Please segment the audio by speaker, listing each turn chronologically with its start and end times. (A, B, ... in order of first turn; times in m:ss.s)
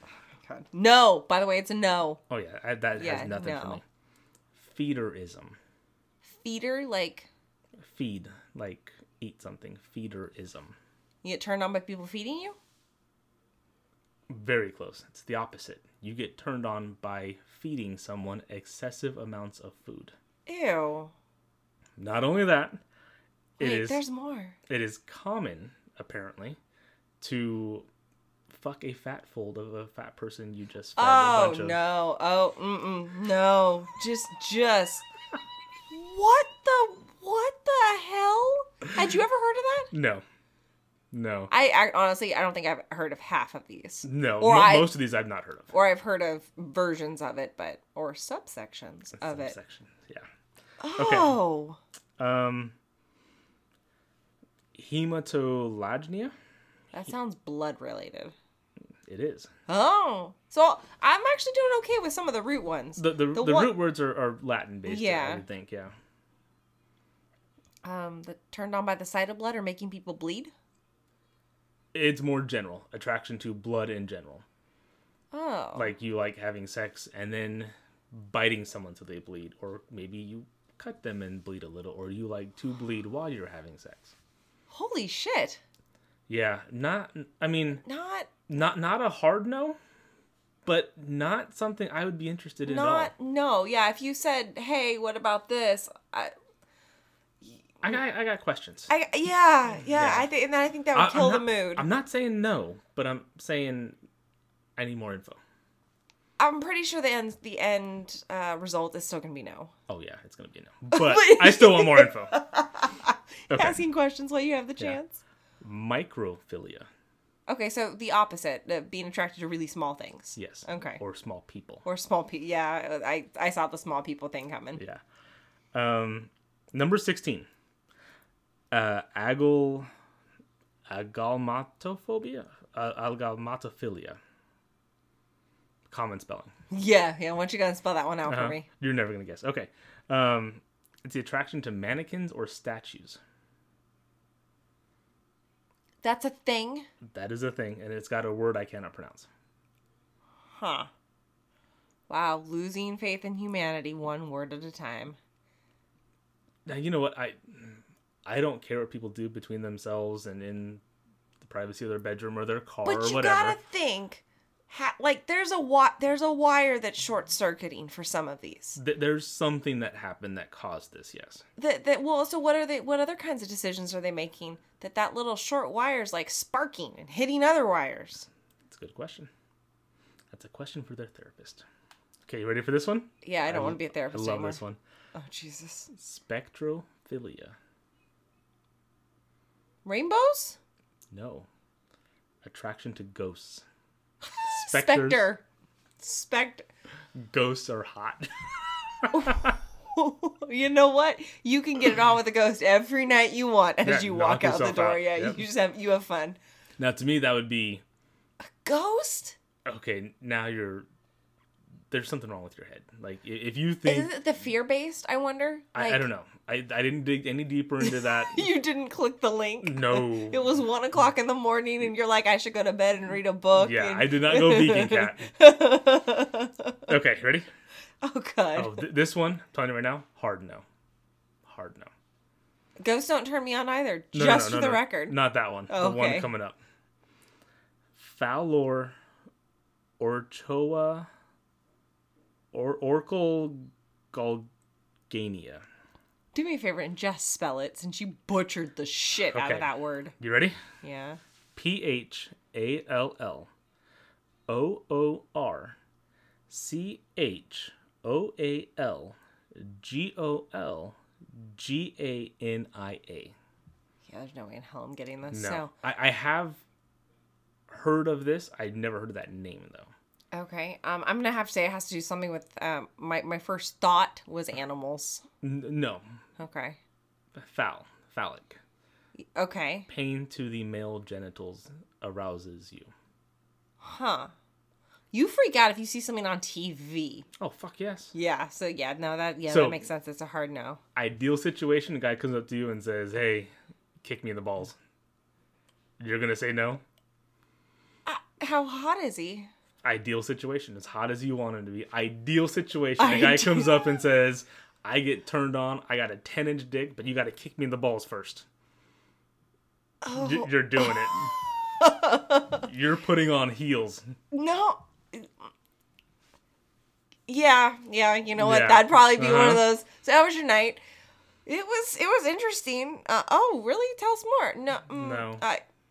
0:00.4-0:02.2 A
0:02.3-0:03.8 B
0:03.0-0:03.8 A
0:04.6-0:05.6 B
0:06.2-0:07.3 A
0:07.8-0:10.7 B
0:11.2-0:12.6 A
0:14.3-0:20.1 B
0:20.5-0:21.1 A
0:22.0-0:22.8 B
0:23.6-0:24.0 B
0:23.6-0:24.6 A
0:24.7-0:26.6 B
0:27.2-0:27.9 B
0:28.5-0:31.8 B
0:31.0-0:35.0 A
0:35.9-0:39.9 A
0:39.9-0:40.2 B
0:41.1-0:41.5 B
0:41.5-0:45.0 A
0:44.0-0:45.7 B
0:45.7-0:49.6 A
0:49.2-0:50.2 B
0:50.8-0:51.8 A
0:51.0-0:51.4 B
0:52.2-0:52.7 B
0:54.7-0:56.3 B
0:56.9-0:58.3 A
0:59.1-0:59.5 B
0:59.7-1:03.8 A
1:03.0-1:05.9 B
1:04.8-1:05.4 A
1:07.8-1:10.5 A
1:11.9-1:14.4 B
1:15.3-1:15.9 A
1:15.8-1:24.1 B
1:24.7-1:25.6 A
1:26.3-1:27.8 B
1:27.8-1:28.3 A
1:28.5-1:29.8 B
1:30.6-1:33.1 B
1:32.6-1:36.3 A
1:37.4-1:38.0 A
1:37.8-1:38.9 B
1:38.9-1:41.9 A
1:39.8-1:40.3 B
1:40.9-1:44.0 B
1:44.8-1:45.4 B
1:46.4-1:49.7 A
1:49.9-1:52.3 B
1:50.9-1:55.2 A
1:53.5-1:53.8 B
1:55.6-1:56.9 B
1:57.5-2:01.0 A
2:00.3-2:01.8 B
2:01.8-2:04.8 A
2:04.7-2:05.0 B
2:05.7-2:07.5 B
2:08.7-2:09.9 B
2:10.9-2:14.2 B
2:15.9-2:16.5 B
2:16.7-2:18.6 A
2:18.2-2:23.2 B
2:26.0-2:26.9 A
2:27.0-2:29.3 B
2:30.5-2:30.9 A
2:32.1-2:35.2 A
2:36.6-2:40.8 B
2:41.4-2:43.6 B
2:42.8-2:48.8 A
2:48.8-2:51.4 B
2:51.6-2:58.3 A
2:58.7-2:59.3 B
3:00.3-3:01.6 B
3:02.2-3:04.8 B
3:03.2-3:04.6 A
3:05.1-3:05.9 A
3:06.0-3:07.5 B
3:09.8-3:10.6 A
3:11.1-3:11.5 B
3:12.4-3:13.6 B
3:14.4-3:15.4 A
3:14.5-3:15.3 B
3:16.0-3:16.7 A
3:17.3-3:19.5 B
3:19.1-3:26.4 A
3:23.8-3:25.4 B
3:26.8-3:27.8 B
3:28.6-3:29.4 A
3:29.6-3:30.9 B
3:31.9-3:34.1 B
3:33.8-3:36.1 A
3:35.7-3:38.5 B
3:37.8-3:46.8 A
3:39.6-3:40.5 B
3:43.6-3:45.3 B
3:46.9-3:47.5 B
3:48.0-3:48.8 A
3:48.5-3:50.6 B
3:51.4-3:51.9 B
3:52.8-3:55.2 A
3:54.1-3:56.6 B
3:55.7-3:56.3 A
3:58.0-3:58.9 B
4:00.0-4:01.1 B
4:02.5-4:04.5 B
4:05.1-4:05.6 B
4:06.3-4:10.1 A
4:09.2-4:10.6 B
4:10.8-4:11.2 A
4:11.5-4:13.5 B
4:14.5-4:15.8 B
4:16.5-4:23.3 B
4:24.0-4:25.7 A
4:25.3-4:26.6 B
4:27.7-4:29.9 B
4:30.3-4:35.2 A
4:35.4-4:36.0 B
4:36.4-4:36.8 A
4:37.3-4:38.6 B
4:39.3-4:39.9 A
4:39.9-4:42.9 B
4:43.8-4:44.3 A
4:45.1-4:47.2 A
4:47.4-4:48.1 B
4:48.1-4:50.8 A
4:49.5-4:49.9 B
4:51.0-4:53.5 B
4:54.0-4:54.8 B
4:56.0-4:56.8 B
4:58.0-4:59.5 A
4:59.8-5:08.5 B
5:03.0-5:03.8 A
5:10.0-5:12.7 A
5:10.1-5:11.3 B
5:12.6-5:14.0 B
5:14.3-5:15.3 A
5:17.3-5:20.8 A
5:18.4-5:19.7 B
5:21.4-5:25.6 A
5:24.9-5:25.4 B